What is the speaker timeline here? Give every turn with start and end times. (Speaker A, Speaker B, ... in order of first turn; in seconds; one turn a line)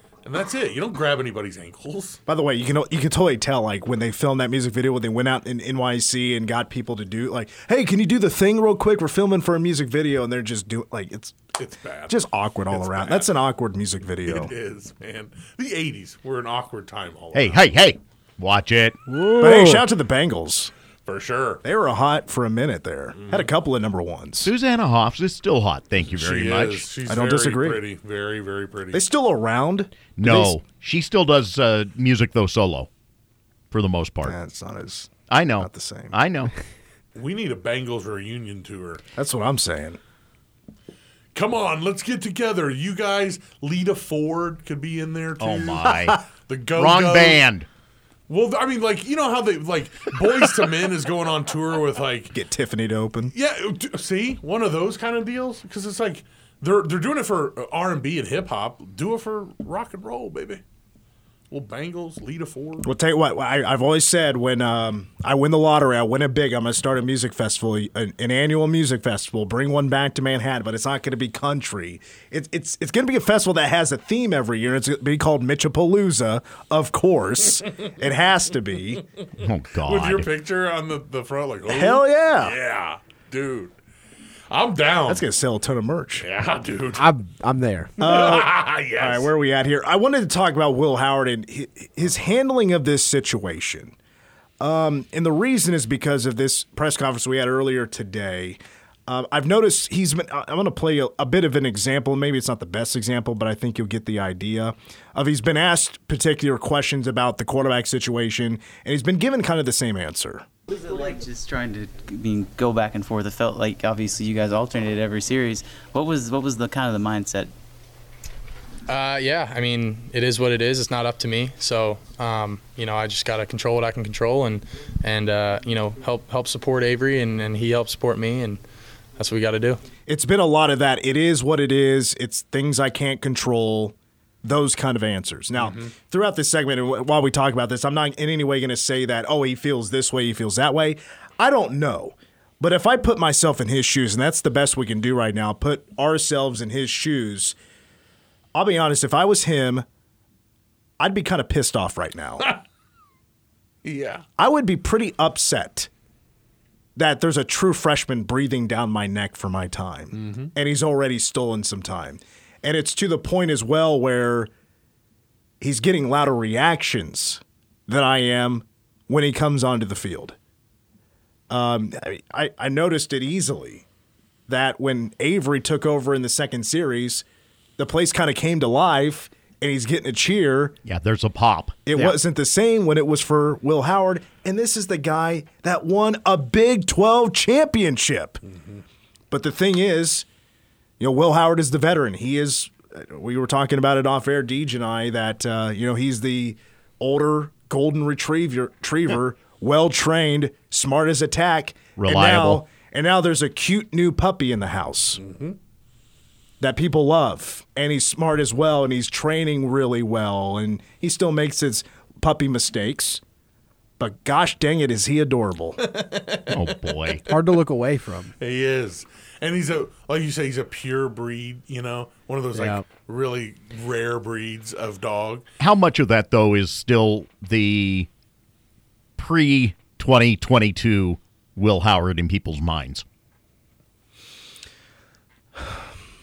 Speaker A: 0.2-2.2
Speaker B: 2.3-11.4
Speaker A: 11.6-13.3
Speaker B: 12.1-14.5
Speaker A: 14.2-17.7
Speaker C: 17.3-19.0
Speaker D: 19.1-19.8
Speaker B: 19.4-20.7
Speaker A: 21.1-21.6
Speaker B: 21.6-24.5
Speaker A: 23.1-23.5
Speaker C: 24.4-26.8
Speaker A: 26.1-29.0
Speaker B: 27.1-27.8
Speaker B: 28.9-30.5
Speaker C: 30.2-32.9
Speaker C: 33.7-34.3
Speaker B: 34.2-36.1
Speaker C: 35.3-36.5
Speaker A: 37.1-39.0
Speaker B: 39.1-40.0
Speaker A: 41.3-47.4
Speaker C: 45.4-46.2
Speaker C: 46.7-47.6
Speaker A: 48.3-52.4
Speaker B: 52.3-53.3
Speaker A: 53.3-60.6
Speaker A: 61.5-62.9
Speaker B: 62.8-79.0
Speaker C: 79.4-80.3
Speaker A: 79.8-83.7
Speaker B: 81.7-82.6
Speaker A: 84.5-85.2
Speaker B: 85.1-86.2
Speaker A: 86.2-87.0
Speaker D: 87.0-88.0
Speaker A: 88.0-89.3
Speaker B: 88.0-94.0
Speaker B: 94.6-110.4
Speaker E: 110.7-117.5
Speaker F: 118.9-128.6
Speaker F: 129.2-129.8
Speaker B: 130.1-147.6
Speaker A: 135.6-135.9
Speaker B: 148.5-149.8
Speaker B: 151.0-152.5
Speaker A: 153.8-154.2
Speaker B: 154.4-155.9
Speaker B: 156.9-164.5
Speaker A: 160.1-160.5
Speaker B: 165.6-170.3
Speaker B: 171.5-173.8
Speaker B: 174.5-177.2
Speaker B: 177.8-180.8
Speaker C: 180.8-182.1
Speaker B: 181.8-188.4
Speaker A: 188.5-188.8
Speaker B: 189.3-190.2
Speaker B: 191.0-205.2
Speaker C: 201.9-202.6
Speaker A: 205.2-205.6
Speaker B: 206.6-213.2
Speaker B: 214.0-215.8
Speaker A: 215.8-217.4
Speaker C: 216.5-217.2
Speaker D: 217.2-218.3
Speaker A: 218.4-225.4
Speaker D: 222.5-222.8
Speaker C: 225.6-228.1
Speaker C: 229.2-233.0